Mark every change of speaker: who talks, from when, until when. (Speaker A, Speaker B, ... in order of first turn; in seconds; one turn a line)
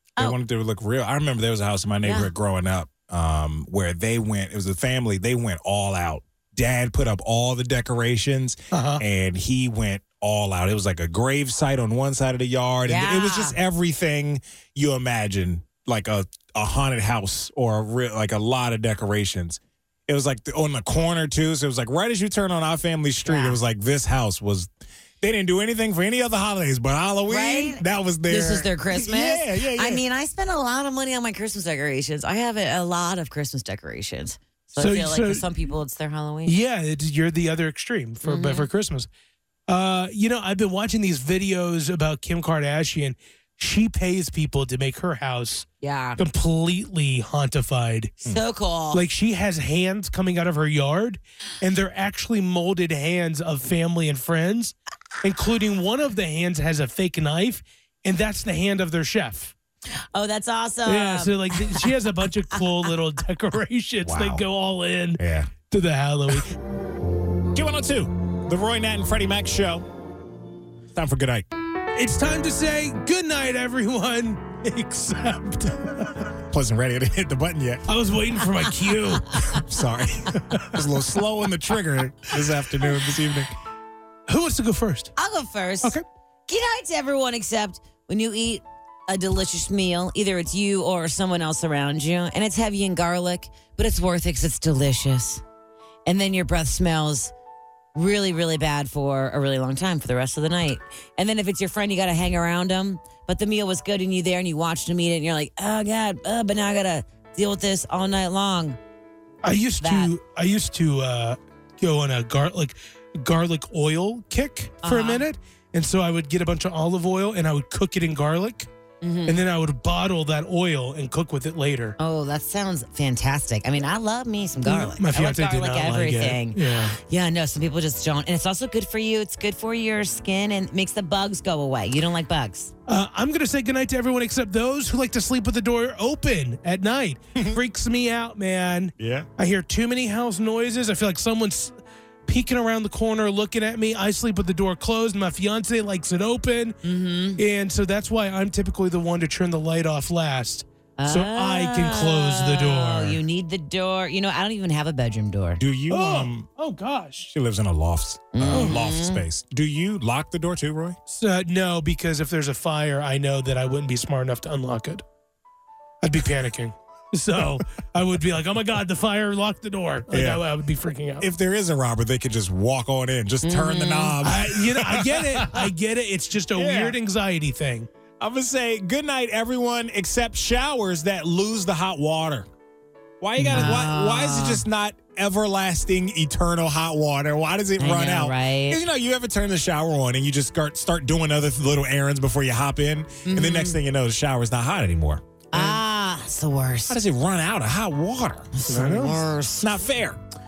Speaker A: 0.2-24.7
Speaker B: 2.0-2.3
Speaker C: 8.7-9.0
Speaker B: 12.9-13.6
Speaker B: 23.2-23.6
Speaker A: 25.2-30.0
Speaker B: 27.3-36.5
Speaker C: 34.8-35.5
Speaker C: 36.5-39.1
Speaker B: 38.2-38.7
Speaker C: 39.7-45.7
Speaker B: 45.8-46.2
Speaker C: 46.2-48.2
Speaker B: 48.3-49.0
Speaker C: 48.9-59.5
Speaker B: 60.1-61.9
Speaker C: 60.9-66.5
Speaker A: 64.0-64.4
Speaker A: 65.2-65.5
Speaker A: 67.5-69.9
Speaker A: 70.9-71.5
Speaker C: 71.9-76.3
Speaker A: 76.5-77.8
Speaker C: 77.9-79.4
Speaker A: 79.5-83.5
Speaker C: 80.5-80.7
Speaker C: 84.3-85.1
Speaker B: 85.2-95.4
Speaker B: 96.1-97.3
Speaker B: 98.0-108.8
Speaker C: 109.4-118.7
Speaker B: 109.8-110.1
Speaker B: 114.8-115.2
Speaker B: 119.0-119.4
Speaker C: 119.3-122.0
Speaker B: 122.0-132.7
Speaker C: 124.7-127.0
Speaker C: 132.9-141.8
Speaker A: 139.0-139.3
Speaker C: 142.3-146.8
Speaker B: 146.8-147.4
Speaker C: 147.4-153.2
Speaker B: 151.0-155.6
Speaker A: 155.6-156.5
Speaker C: 155.9-157.3
Speaker A: 157.3-161.0
Speaker B: 158.3-159.2
Speaker C: 158.5-158.8
Speaker C: 161.1-165.0
Speaker C: 166.0-171.3
Speaker A: 170.1-170.4
Speaker A: 171.2-175.7
Speaker B: 173.4-174.2
Speaker C: 174.2-177.9
Speaker A: 176.6-177.0
Speaker A: 178.2-182.5
Speaker A: 183.2-195.2
Speaker B: 183.4-184.6
Speaker B: 187.8-188.8
Speaker B: 193.3-193.8
Speaker B: 195.5-197.0
Speaker A: 196.9-198.5
Speaker B: 198.5-199.8
Speaker C: 198.7-199.2
Speaker A: 199.6-200.2